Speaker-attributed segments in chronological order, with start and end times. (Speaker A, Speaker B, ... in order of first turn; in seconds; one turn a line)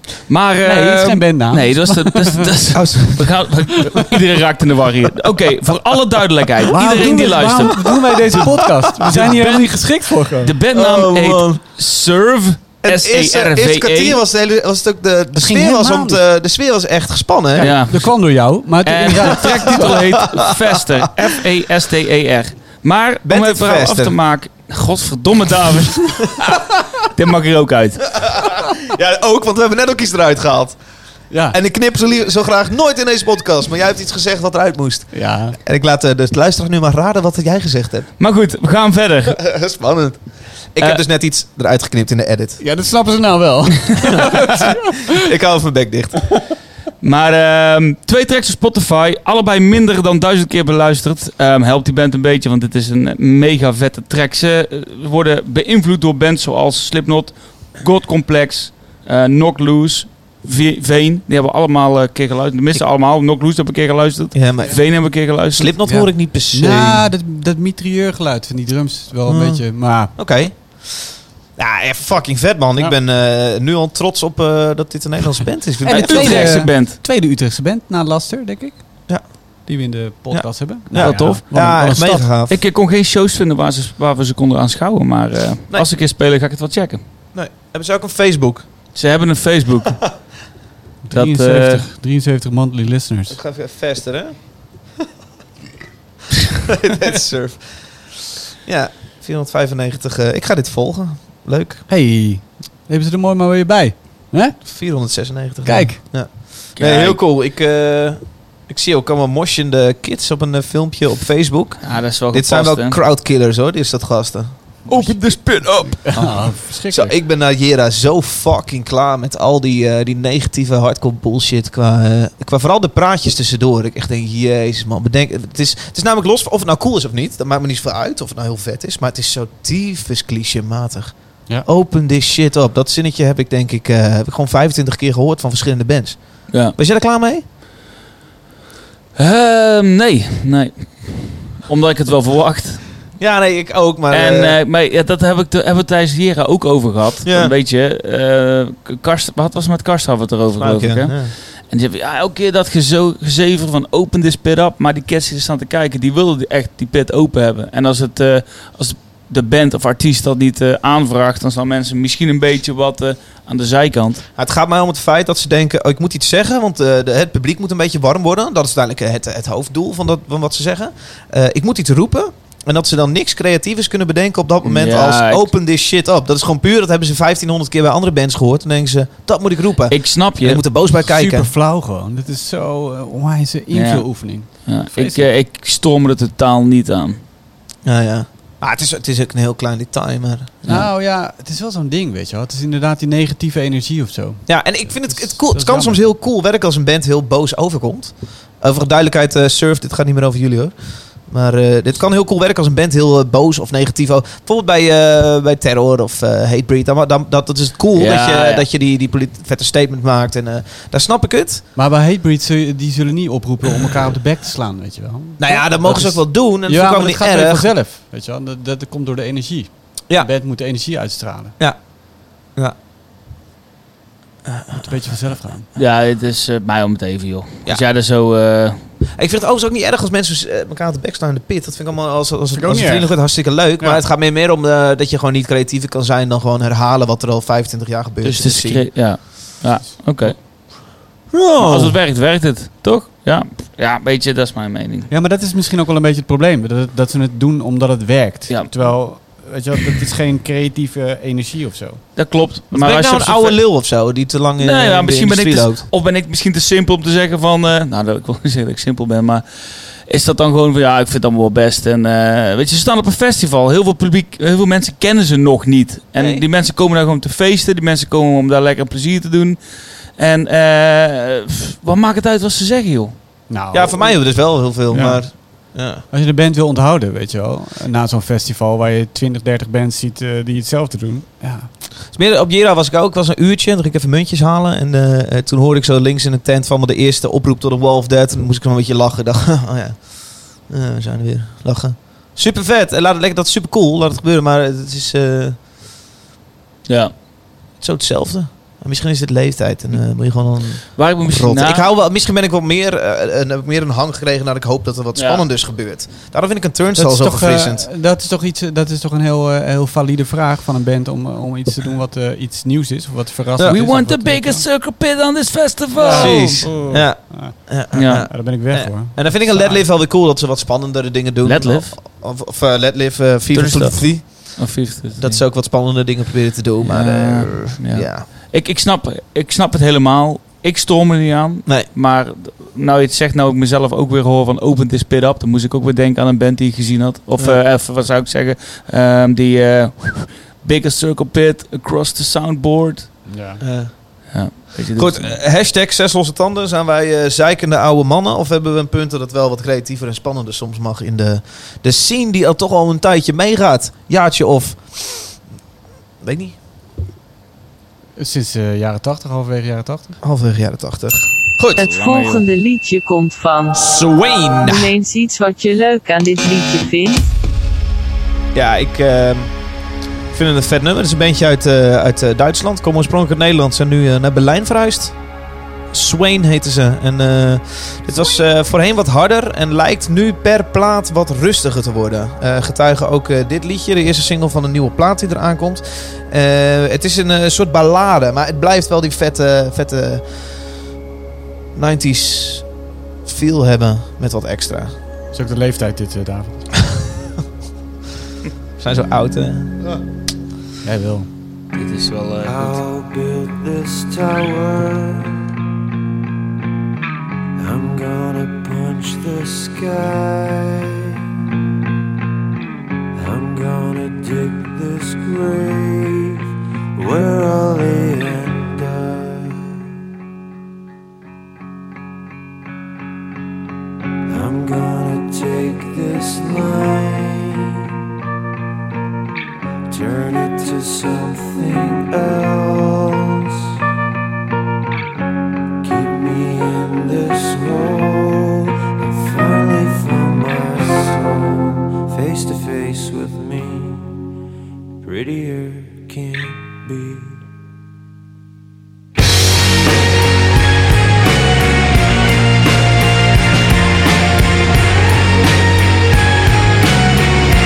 Speaker A: 0.3-8.5
Speaker B: 0.6-2.5
Speaker C: 2.7-3.4
Speaker B: 6.7-10.5
Speaker C: 8.4-9.2
Speaker A: 9.0-14.2
Speaker C: 10.7-11.6
Speaker C: 12.8-17.7
Speaker B: 15.3-16.2
Speaker B: 17.6-20.0
Speaker A: 17.6-18.2
Speaker A: 18.8-28.2
Speaker C: 19.4-21.4
Speaker C: 23.2-24.2
Speaker C: 28.1-30.8
Speaker B: 31.3-31.6
Speaker C: 31.5-38.1
Speaker B: 35.1-35.6
Speaker A: 38.2-39.4
Speaker C: 39.3-42.6
Speaker B: 42.6-45.1
Speaker C: 44.1-46.2
Speaker A: 47.0-65.8
Speaker C: 64.3-67.1
Speaker B: 65.8-70.2
Speaker C: 69.2-76.6
Speaker B: 75.8-79.0
Speaker A: 75.9-77.0
Speaker B: 79.7-82.3
Speaker C: 80.3-82.6
Speaker A: 81.0-81.4
Speaker A: 82.5-87.0
Speaker C: 87.3-88.7
Speaker A: 88.9-90.1
Speaker B: 91.0-93.4
Speaker A: 91.1-91.8
Speaker C: 93.3-94.5
Speaker C: 96.6-98.0
Speaker C: 98.6-101.8
Speaker B: 101.9-104.7
Speaker C: 104.6-116.3
Speaker B: 105.7-106.0
Speaker A: 106.8-107.2
Speaker A: 111.8-113.0
Speaker A: 114.9-116.5
Speaker B: 115.9-117.2
Speaker C: 116.9-137.4
Speaker A: 136.5-136.8
Speaker A: 139.2-143.0
Speaker C: 143.2-144.6
Speaker A: 144.1-164.2
Speaker C: 147.2-147.5
Speaker C: 150.6-151.3
Speaker C: 164.4-181.5
Speaker A: 174.6-175.5
Speaker A: 179.9-180.6
Speaker B: 181.0-185.3
Speaker A: 183.7-187.2
Speaker C: 187.8-190.7
Speaker B: 190.7-196.0
Speaker C: 194.5-211.6
Speaker A: 207.9-208.7
Speaker B: 211.8-221.6
Speaker C: 215.4-217.7
Speaker C: 221.6-221.9
Speaker C: 224.5-224.9
Speaker B: 224.8-225.7
Speaker A: 225.8-228.9
Speaker C: 229.1-238.9
Speaker B: 232.5-234.0
Speaker A: 238.2-240.4
Speaker C: 241.3-242.0
Speaker A: 241.6-245.1
Speaker B: 245.1-252.0
Speaker A: 248.5-248.8
Speaker A: 252.2-253.8
Speaker C: 252.7-255.9
Speaker A: 254.6-273.2
Speaker C: 266.2-266.5
Speaker B: 273.5-281.7
Speaker C: 273.7-276.0
Speaker C: 282.1-295.6
Speaker A: 296.9-297.1
Speaker C: 297.8-307.9
Speaker A: 301.0-301.9
Speaker A: 305.1-305.4
Speaker B: 307.0-314.6
Speaker C: 313.6-313.8
Speaker A: 313.7-316.8
Speaker B: 315.9-319.9
Speaker C: 316.1-328.3
Speaker A: 317.9-318.3
Speaker A: 321.4-322.0
Speaker A: 323.5-325.4
Speaker A: 326.8-343.3
Speaker B: 343.3-343.6
Speaker C: 343.6-344.2
Speaker A: 344.3-345.4
Speaker C: 345.0-355.4
Speaker C: 356.2-356.6
Speaker B: 358.2-360.2
Speaker C: 360.2-361.9
Speaker D: 361.8-363.9
Speaker A: 361.9-362.4
Speaker C: 363.7-364.9
Speaker D: 364.6-367.3
Speaker C: 368.5-369.5
Speaker C: 370.3-375.2
Speaker C: 375.9-390.2
Speaker C: 391.8-392.7
Speaker C: 393.2-394.9
Speaker B: 395.3-396.7
Speaker C: 398.8-400.0
Speaker B: 400.8-401.3
Speaker A: 401.7-402.8
Speaker E: 402.4-405.3
Speaker E: 407.6-411.1
Speaker E: 413.2-416.4
Speaker E: 417.0-419.6
Speaker E: 424.3-427.7
Speaker E: 429.9-433.4
Speaker E: 435.8-444.0
Speaker E: 445.1-447.3